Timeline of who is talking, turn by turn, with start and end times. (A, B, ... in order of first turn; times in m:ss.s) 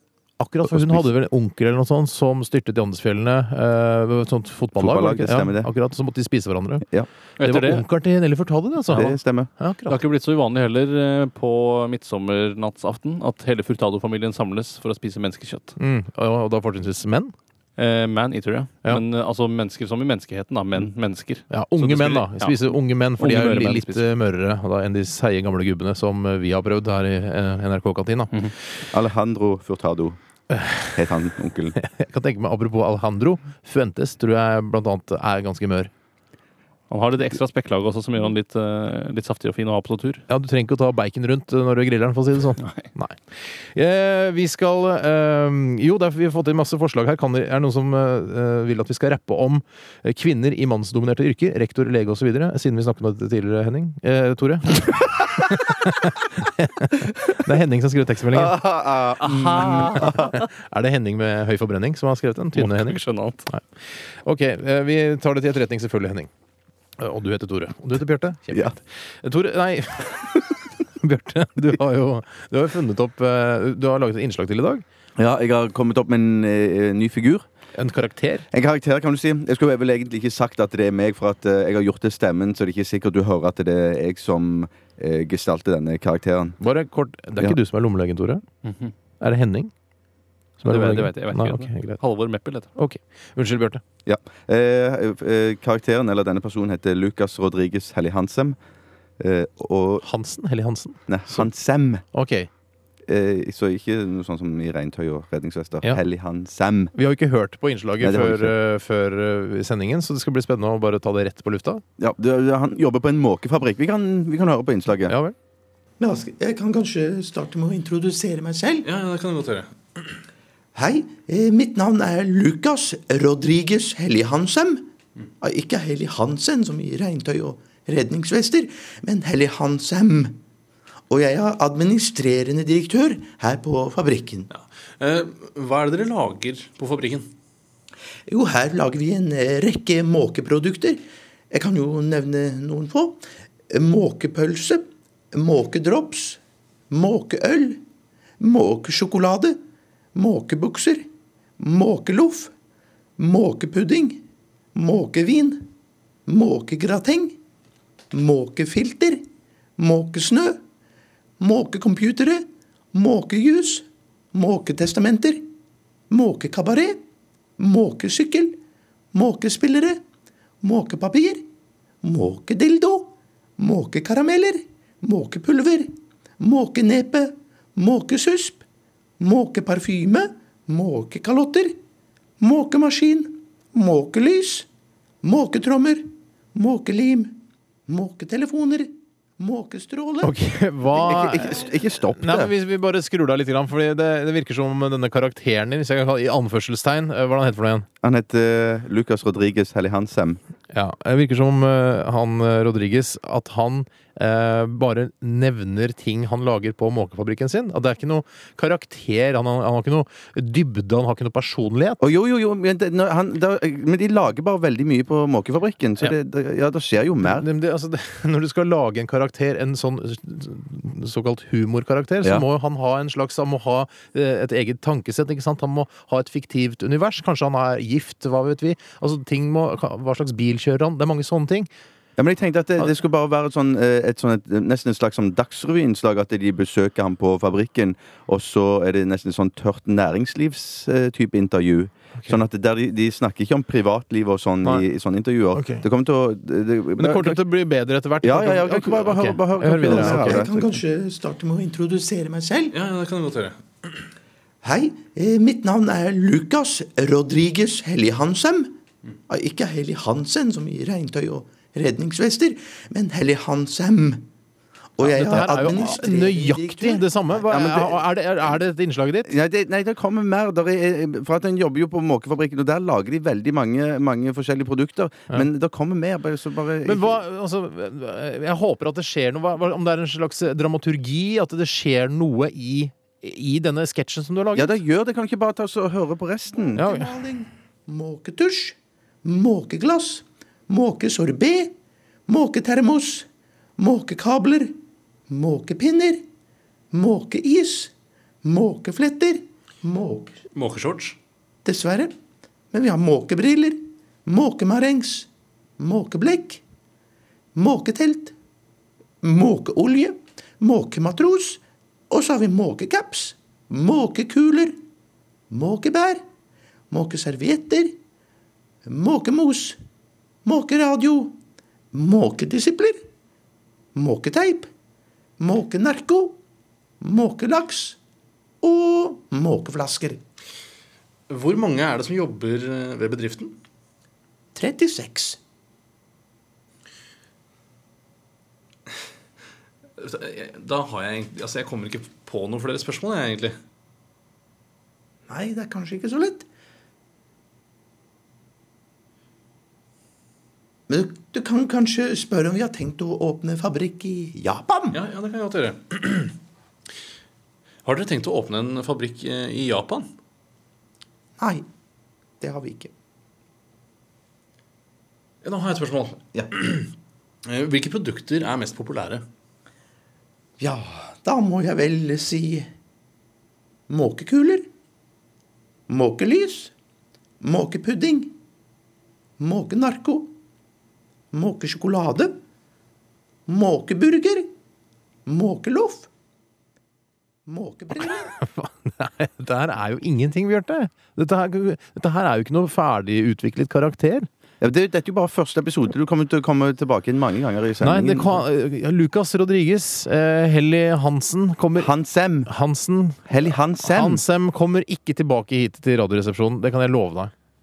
0:00.4-0:06.8 A
0:00.6-0:01.1 B
0:04.7-0:05.7 B
0:07.4-0:07.8 C
0:07.4-0:10.0 A
0:08.9-0:09.5 B
0:09.9-0:15.8 C
0:15.8-0:17.3 A
0:17.8-0:24.0 C
0:21.5-0:28.5 A
0:28.9-0:30.2 B
0:30.9-0:31.8 B
0:31.8-0:35.9 A
0:36.9-0:40.2 C
0:40.3-0:43.2 A
0:42.6-0:42.8 C
0:43.7-0:58.6 A
0:58.3-1:00.3 B
0:59.2-1:03.6 A
0:59.2-1:00.4 C
1:02.6-1:03.5 C
1:04.2-1:06.3 A
1:07.0-1:14.8 A
1:15.2-1:17.5 B
1:17.7-1:18.5 A
1:18.5-1:26.6 B
1:26.6-1:28.4 A
1:28.6-1:28.9 C
1:29.2-1:29.7 A
1:30.6-1:32.7 C
1:30.6-1:32.0 A
1:32.8-1:33.8 A
1:34.0-1:38.6 B
1:39.2-1:40.0 B
1:40.0-1:41.5 A
1:41.1-1:42.0 B
1:42.1-1:42.5 A
1:43.1-1:46.9 B
1:46.9-1:51.8 A
1:48.0-1:48.5 B
1:52.0-1:55.2 B
1:55.1-1:55.3 A
1:56.0-1:58.9 D
1:58.8-1:59.7 E
2:00.7-2:04.8 D
2:05.4-2:10.4 D
2:11.1-2:14.5 D
2:14.5-2:17.3 E
2:18.3-2:21.0 D
2:21.5-2:26.4 D
2:26.9-2:27.8 D
2:28.4-2:29.6 D
2:30.1-2:31.0 D
2:31.6-2:32.5 D
2:33.2-2:34.2 D
2:34.7-2:35.7 D
2:36.3-2:37.4 D
2:38.1-2:39.2 D
2:39.8-2:40.6 D
2:41.4-2:45.4 D
2:46.1-2:47.0 D
2:47.6-2:48.6 D
2:49.1-2:50.0 D
2:50.6-2:51.4 D
2:52.0-2:58.6 D
2:59.2-3:01.7 D
3:02.4-3:04.7 D
3:05.2-3:07.3 D
3:07.9-3:10.3 D
3:10.2-3:17.8 A
3:10.9-3:12.5 B
3:18.0-3:20.4 B
3:20.7-3:32.0 A
3:32.0-3:37.5 B
3:37.2-3:51.7 A
3:52.2-4:07.4 B
4:05.5-4:05.8 A
4:07.0-4:10.4 A
4:08.2-4:10.7 B
4:09.8-4:12.7 D
4:12.7-4:13.6 E
4:14.6-4:18.7 D
4:19.3-4:24.2 D
4:25.0-4:27.1 D
4:25.0-4:29.3 A
4:29.2-4:37.2 B
4:36.8-4:44.8 A
4:44.5-4:46.8 B
4:46.7-4:51.7 D
4:46.8-4:47.1 A
4:52.3-4:53.2 D
4:53.8-4:54.7 D
4:55.3-4:56.2 D
4:56.9-4:57.9 D
4:58.4-5:00.4 D
5:00.5-5:01.2 E
5:01.6-5:02.1 D
5:02.7-5:06.6 D
5:07.5-5:08.3 D
5:09.2-5:14.7 D
5:15.5-5:16.2 D
5:16.9-5:18.0 D
5:18.8-5:19.8 D
5:20.4-5:21.4 D
5:21.9-5:23.0 D
5:23.9-5:24.7 D
5:25.4-5:26.4 D
5:27.0-5:28.0 D
5:28.6-5:30.2 D
5:31.3-5:33.5 E
5:34.5-5:35.4 D
5:40.0-5:43.5 E
5:45.3-5:46.4 D
5:50.9-5:55.0 D
5:54.9-5:56.3 E
5:57.8-6:00.1 E
6:01.4-6:01.6 D
6:02.4-6:02.9 D
6:05.4-6:06.8 E
6:07.5-6:09.2 E
6:10.6-6:12.7 D
6:13.9-6:14.6 D
6:15.9-6:16.7 D
6:17.4-6:18.3 D
6:19.4-6:20.3 D
6:21.3-6:22.4 D
6:23.5-6:24.5 D
6:25.3-6:26.1 D
6:27.5-6:28.3 D
6:28.1-6:34.3 A
6:34.6-6:38.4 B
6:37.8-6:41.9 A
6:41.8-6:42.5 B
6:42.4-6:47.3 A
6:43.3-6:44.2 B